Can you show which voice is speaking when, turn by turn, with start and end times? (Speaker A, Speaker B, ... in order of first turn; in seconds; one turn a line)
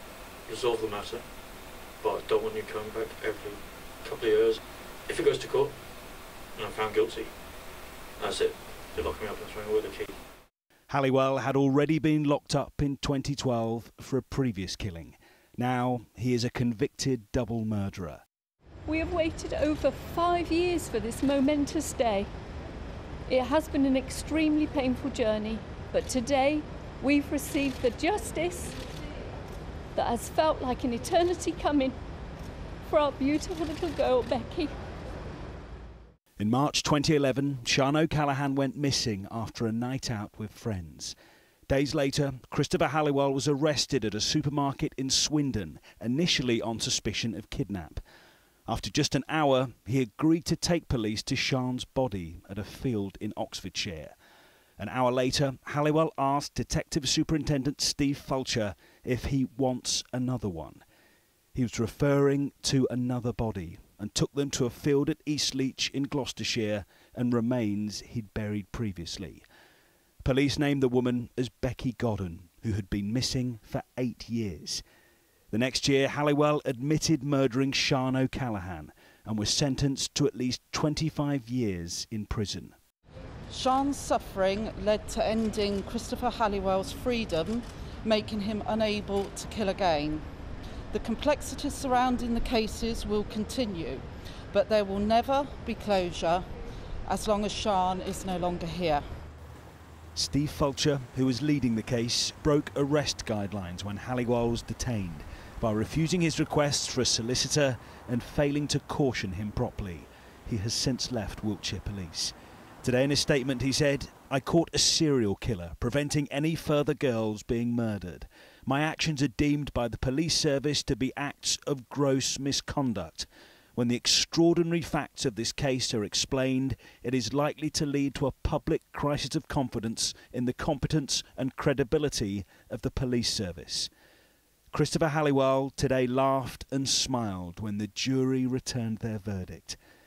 Speaker A: 0.5-1.3
Speaker A: 2.0-5.8
Speaker A: 6.6-7.3
Speaker A: 8.2-10.2
Speaker B: 10.9-18.2
Speaker C: 18.9-22.3
Speaker C: 23.3-28.8
Speaker C: 29.9-32.0
Speaker C: 32.9-34.7
Speaker B: 36.4-41.2
Speaker B: 41.7-48.0
Speaker B: 48.7-54.1
Speaker B: 54.8-60.8
Speaker B: 61.5-69.5
Speaker B: 70.2-74.8
Speaker B: 75.5-82.8
Speaker D: 83.5-90.2
Speaker D: 90.9-96.5
Speaker D: 97.1-99.0
Speaker B: 100.1-133.9
Speaker B: 134.7-139.8